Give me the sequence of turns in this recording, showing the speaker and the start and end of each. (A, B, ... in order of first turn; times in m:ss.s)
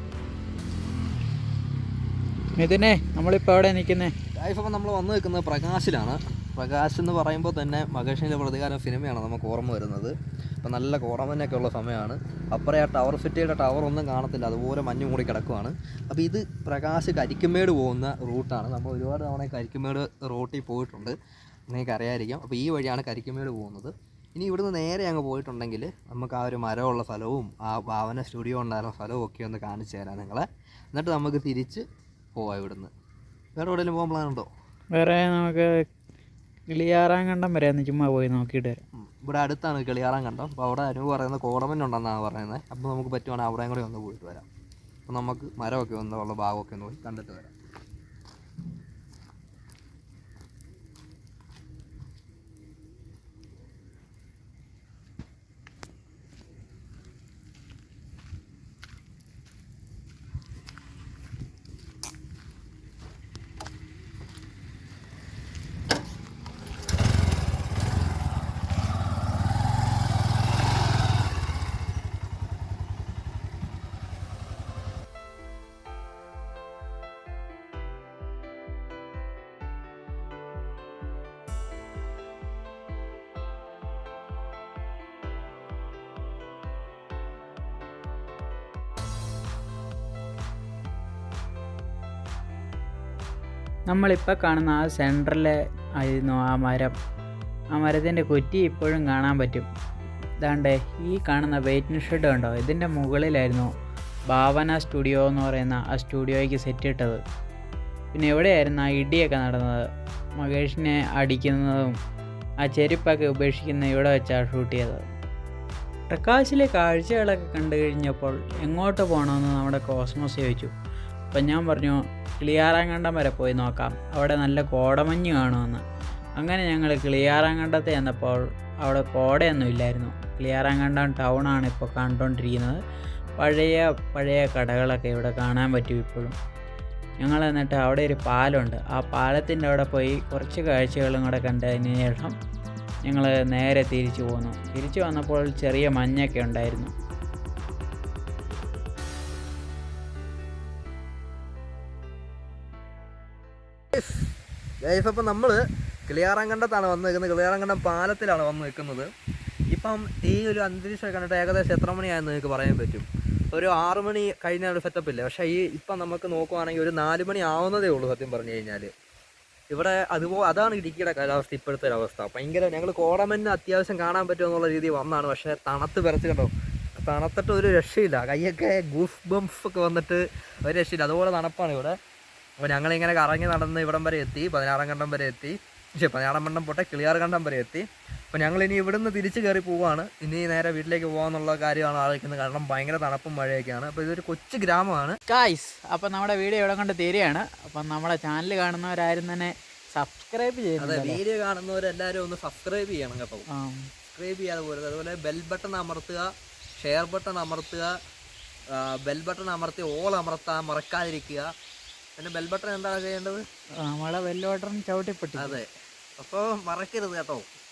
0:02.6-0:04.1 A
0:04.4-0:21.2 B
0:21.7-0:31.8 B
0:32.4-0:32.9 B
0:33.6-0:34.5 B
0:35.0-0:35.7 A
0:36.7-0:38.8 A
0:39.0-0:44.4 B
0:45.1-0:47.5 B
1:33.9-1:36.9 A
1:37.8-1:39.7 A
1:40.4-1:43.7 A
1:44.3-1:47.2 A
1:48.1-1:49.8 A
1:50.4-1:51.9 A
1:52.6-1:55.0 A
1:56.1-2:00.7 A
2:01.3-2:05.8 A
2:06.4-2:12.8 A
2:13.4-2:16.3 A
2:17.2-2:22.4 A
2:23.1-2:26.9 A
2:33.9-2:34.3 B
2:34.8-2:39.1 B
2:39.7-2:48.9 B
2:49.7-3:02.0 B
3:02.6-3:15.2 B
3:15.3-3:21.2 A
3:20.8-3:23.5 B
3:23.5-3:23.9 A
3:24.2-3:26.3 B
3:26.8-3:27.9 B
3:28.7-3:31.5 B
3:32.2-3:33.4 B
3:33.8-3:35.6 A
3:35.4-3:35.7 B
3:36.2-3:37.4 B